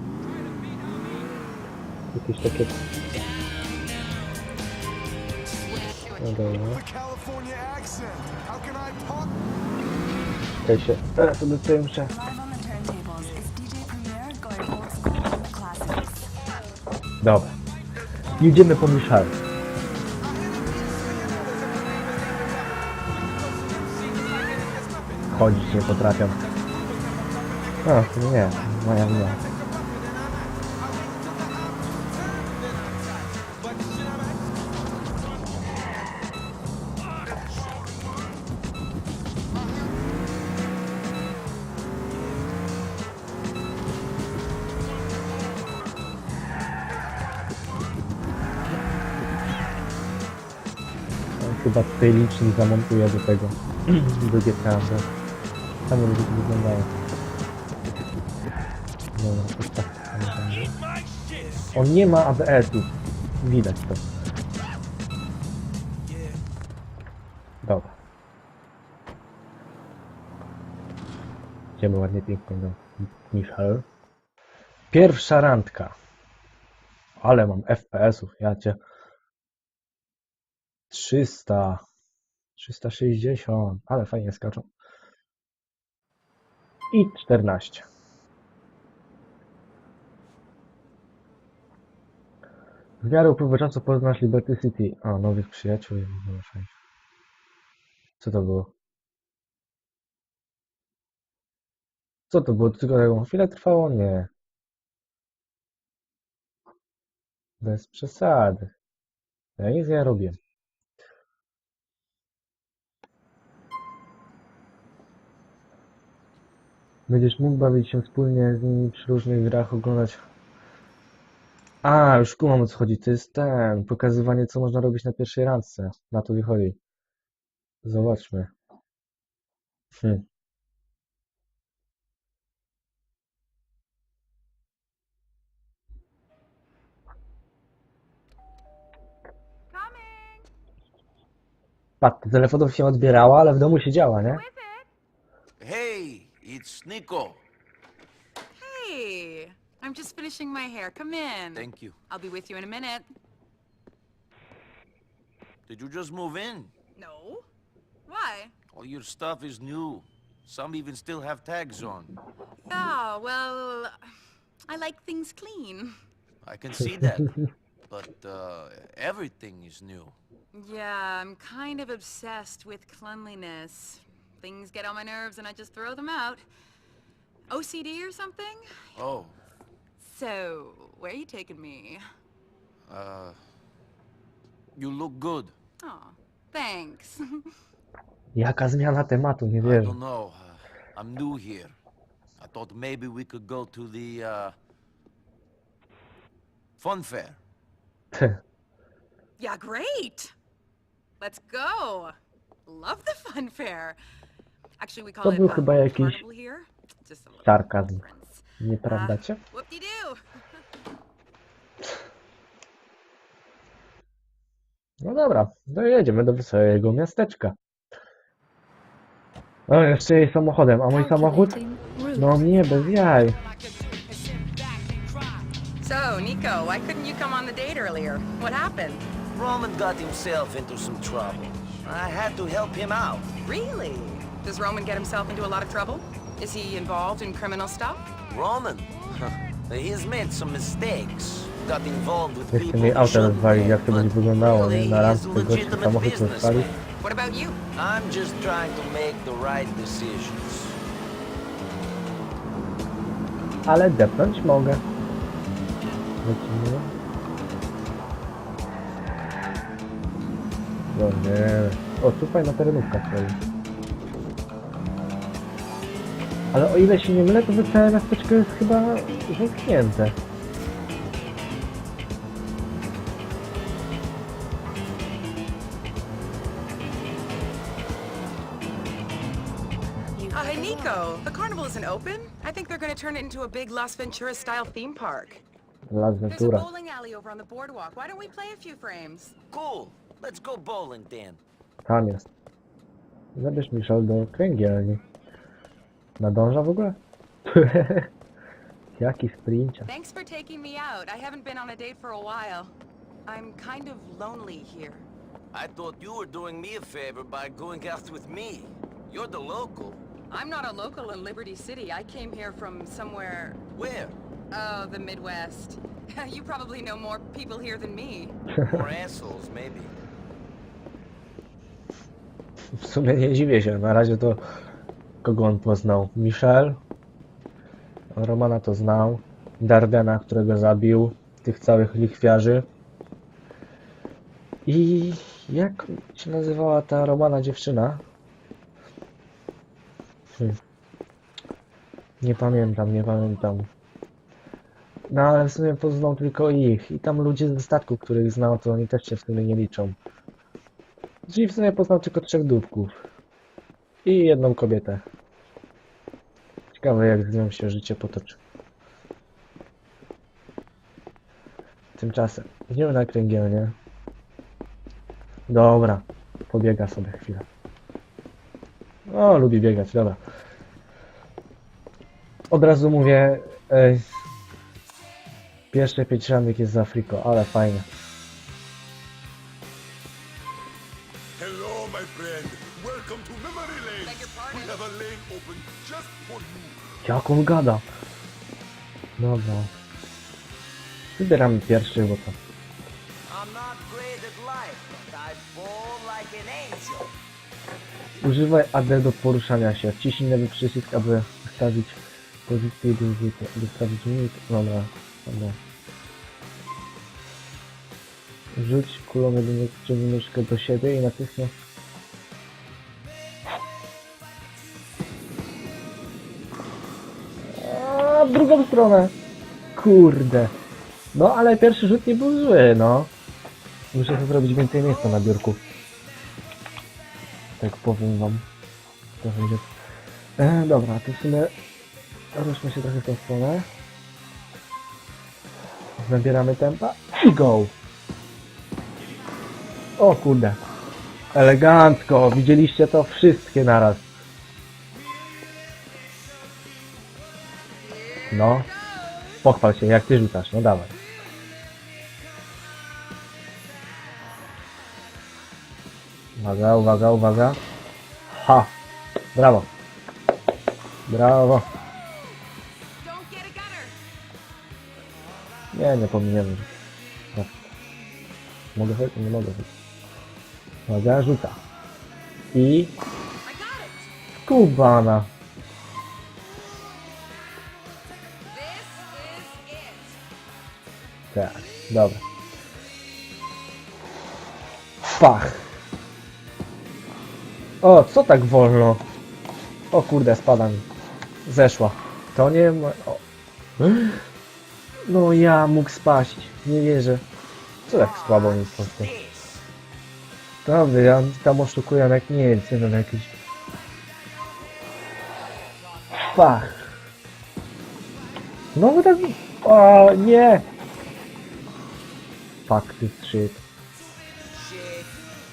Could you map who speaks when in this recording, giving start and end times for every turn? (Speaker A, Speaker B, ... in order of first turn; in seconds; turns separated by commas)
Speaker A: 2.1-2.8, Speaker A: 6.2-6.8, Speaker B: 6.9-8.7, Speaker A: 10.6-12.1, Speaker C: 12.3-16.1, Speaker A: 17.2-17.5, Speaker A: 18.4-19.4, Speaker A: 25.3-26.4, Speaker A: 27.8-29.4, Speaker A: 51.4-55.1, Speaker A: 55.9-56.9, Speaker A: 59.1-60.8, Speaker A: 61.7-64.0, Speaker A: 67.6-67.9, Speaker A: 71.8-73.8, Speaker A: 74.9-75.9, Speaker A: 77.2-78.8, Speaker A: 80.9-81.8, Speaker A: 82.6-84.7, Speaker A: 86.9-87.8, Speaker A: 93.0-96.7, Speaker A: 98.2-98.7, Speaker A: 102.3-104.3, Speaker A: 107.6-108.7, Speaker A: 109.6-110.4, Speaker A: 117.1-120.2, Speaker A: 121.8-126.8, Speaker A: 127.8-128.5, Speaker A: 130.0-130.2, Speaker D: 139.7-140.5, Speaker A: 142.0-144.4, Speaker D: 144.3-144.9, Speaker E: 145.6-147.4, Speaker D: 148.6-153.1, Speaker E: 151.5-151.9, Speaker E: 155.7-156.7, Speaker D: 156.9-157.5, Speaker D: 158.1-158.5, Speaker E: 158.7-162.1, Speaker D: 162.7-163.9, Speaker D: 164.7-166.0, Speaker E: 166.4-170.2, Speaker D: 170.5-176.4, Speaker D: 177.5-178.6, Speaker E: 178.9-179.3, Speaker D: 180.0-182.0, Speaker E: 182.9-183.4, Speaker E: 184.8-185.5, Speaker D: 185.8-187.4, Speaker A: 188.3-190.0, Speaker E: 189.6-191.7, Speaker E: 192.4-194.5, Speaker E: 196.8-197.4, Speaker A: 198.1-198.4, Speaker D: 199.4-200.3, Speaker D: 201.2-204.0, Speaker D: 204.8-210.2, Speaker A: 205.2-206.2, Speaker A: 207.4-208.0, Speaker A: 208.6-209.4, Speaker A: 215.0-217.6, Speaker A: 219.7-221.6, Speaker C: 220.9-222.9, Speaker A: 222.1-223.4, Speaker D: 223.8-225.2, Speaker D: 225.8-229.1, Speaker E: 229.3-233.3, Speaker D: 233.4-238.1, Speaker E: 238.3-246.8, Speaker A: 242.5-246.7, Speaker D: 247.0-247.6, Speaker E: 247.7-250.8, Speaker A: 253.7-254.8, Speaker A: 256.2-256.9, Speaker A: 260.9-263.4, Speaker A: 266.5-270.1, Speaker C: 280.1-281.1, Speaker D: 280.3-285.4, Speaker A: 285.9-286.7, Speaker D: 286.3-289.3, Speaker E: 289.5-291.4, Speaker A: 291.9-292.2, Speaker A: 293.3-295.0, Speaker A: 296.2-298.1, Speaker A: 299.0-299.9, Speaker D: 299.9-302.7, Speaker D: 303.2-305.1, Speaker E: 305.5-310.0, Speaker D: 310.3-313.6, Speaker E: 313.8-314.2, Speaker D: 314.5-318.4, Speaker A: 318.6-318.8, Speaker E: 318.6-319.9, Speaker A: 322.7-324.4, Speaker A: 325.2-326.8, Speaker A: 328.1-332.7, Speaker A: 334.6-338.0, Speaker A: 342.2-343.7, Speaker A: 345.1-349.9, Speaker A: 351.3-352.9, Speaker A: 354.0-355.0, Speaker A: 356.7-358.4, Speaker A: 362.0-363.8, Speaker A: 365.5-367.4, Speaker A: 369.1-370.2, Speaker A: 372.5-374.0, Speaker A: 375.7-377.9, Speaker B: 381.4-386.8, Speaker D: 384.0-384.8, Speaker A: 387.0-387.8, Speaker A: 389.2-389.7, Speaker A: 391.1-392.4, Speaker E: 393.3-397.1, Speaker A: 398.2-405.6, Speaker A: 408.5-411.5, Speaker A: 417.4-419.1, Speaker A: 419.8-420.5, Speaker A: 421.1-423.1, Speaker A: 423.9-425.6, Speaker A: 427.6-428.4, Speaker A: 429.2-429.7, Speaker A: 430.4-431.5, Speaker A: 432.3-433.7, Speaker A: 436.0-437.7, Speaker A: 440.0-440.6, Speaker A: 441.3-444.0, Speaker D: 448.2-449.4, Speaker A: 448.3-448.7, Speaker A: 449.4-450.9, Speaker A: 456.4-457.6, Speaker A: 458.3-458.7, Speaker A: 459.3-459.7, Speaker A: 461.1-461.7, Speaker D: 463.0-463.9, Speaker A: 465.7-466.7, Speaker A: 468.7-469.7, Speaker A: 470.9-471.6, Speaker A: 472.5-472.9, Speaker D: 473.4-474.1, Speaker A: 474.4-475.3, Speaker D: 478.4-480.2, Speaker A: 481.3-482.2, Speaker A: 485.0-485.6, Speaker A: 487.8-489.0, Speaker A: 489.9-490.9, Speaker A: 491.4-493.2, Speaker A: 493.8-494.2, Speaker A: 495.1-497.2, Speaker A: 497.9-499.1, Speaker E: 497.9-499.6, Speaker A: 500.6-503.3, Speaker A: 506.1-506.9, Speaker A: 508.7-510.6, Speaker A: 512.7-513.6, Speaker E: 514.5-515.1